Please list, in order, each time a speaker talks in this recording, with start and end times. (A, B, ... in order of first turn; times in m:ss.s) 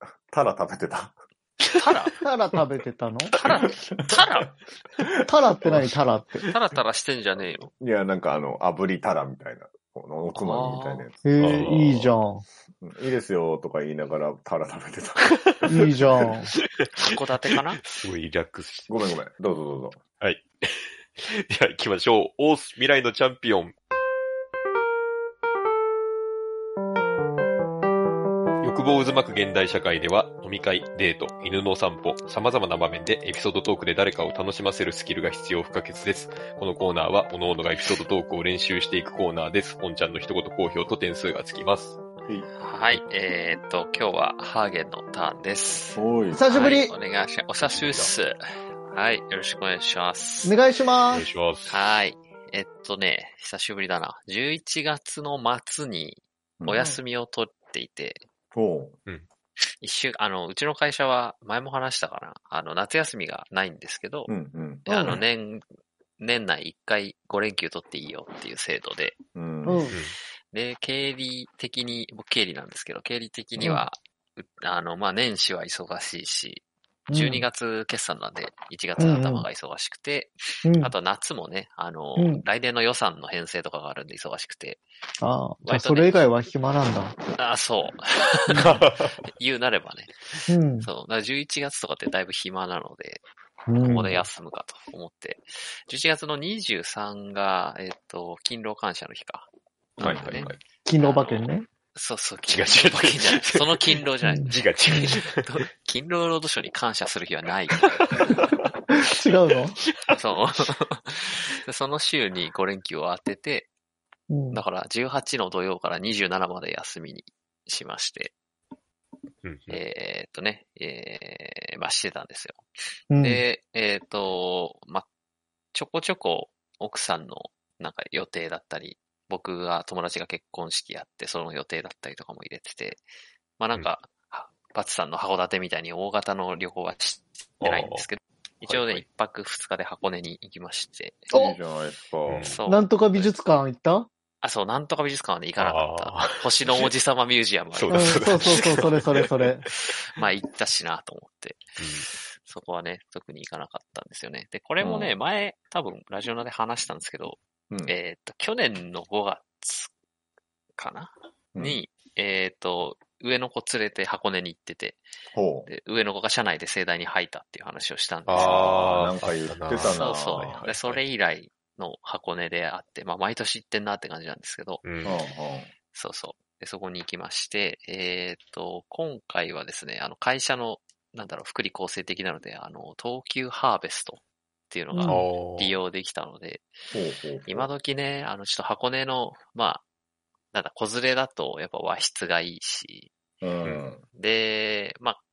0:00.3-0:01.2 A
0:01.8-0:02.1 B
0:02.2-0:03.3 C
0:03.3-0:04.5 B
0:03.6-0:04.2 A
0:05.2-0:06.5 C
0:05.4-0:05.9 A
0:06.5-0:07.7 B
0:07.8-0:11.8 A
0:10.3-0:11.1 B
0:11.2-0:12.4 C
0:11.4-0:12.1 D
0:12.8-0:15.9 A
0:15.6-0:16.5 C
0:16.6-0:16.9 D
0:17.0-0:17.8 B
0:17.8-0:18.9 D
0:18.9-0:20.0 A
0:20.2-0:23.7 D
0:28.6-0:42.0 D
0:42.6-0:48.4 B
0:45.9-0:46.4 A
0:46.3-0:46.9 C
0:47.6-0:48.1 D
0:48.9-0:50.5 B
0:50.4-0:51.3 C
0:51.1-0:51.8 D
0:51.7-0:58.2 B
0:56.7-0:57.0 C
0:58.5-0:59.0 A
0:59.8-1:04.3 B
1:04.3-1:05.2 A
1:04.9-1:05.6 B
1:04.9-1:05.2 C
1:06.2-1:09.2 B
1:09.4-1:09.8 A
1:09.6-1:10.0 C
1:10.5-1:24.8 B
1:17.1-1:17.4 C
1:19.0-1:19.5 C
1:20.6-1:20.9 C
1:22.2-1:22.4 C
1:25.2-1:27.2 C
1:25.6-1:26.2 B
1:27.4-1:33.2 B
1:28.5-1:29.1 D
1:30.5-1:30.9 C
1:33.7-1:34.2 C
1:33.8-1:48.4 B
1:40.0-1:40.4 A
1:40.0-1:40.6 D
1:40.9-1:41.7 C
1:42.5-1:45.4 D
1:44.2-1:45.1 C
1:48.1-1:48.6 D
1:48.9-1:49.8 C
1:50.1-1:53.7 B
1:54.3-1:54.6 C
1:54.5-1:58.4 B
1:59.4-1:59.8 D
1:59.7-2:02.6 B
2:03.1-2:03.4 C
2:03.2-2:05.1 B
2:05.7-2:13.0 B
2:13.6-2:21.3 B
2:17.6-2:18.1 D
2:18.6-2:19.0 D
2:21.3-2:21.6 C
2:21.3-2:22.5 A
2:22.3-2:22.6 D
2:22.4-2:23.3 B
2:22.7-2:24.1 C
2:24.4-2:29.3 B
2:25.6-2:26.9 D
2:27.7-2:29.9 D
2:27.9-2:29.7 C
2:29.8-2:31.6 B
2:31.8-2:32.1 D
2:32.4-2:39.9 B
2:34.8-2:35.1 A
2:40.8-2:45.0 B
2:45.3-2:45.7 A
2:45.7-2:48.6 B
2:48.3-2:51.0 D
2:48.4-2:50.6 A
2:49.8-2:54.9 B
2:54.8-2:55.1 D
2:55.0-2:55.7 A
2:55.9-3:06.7 B
3:04.9-3:05.2 C
3:05.1-3:05.8 D
3:06.9-3:07.7 A
3:07.5-3:09.8 B
3:10.5-3:13.1 B
3:13.4-3:14.0 A
3:13.6-3:13.9 D
3:14.1-3:15.2 B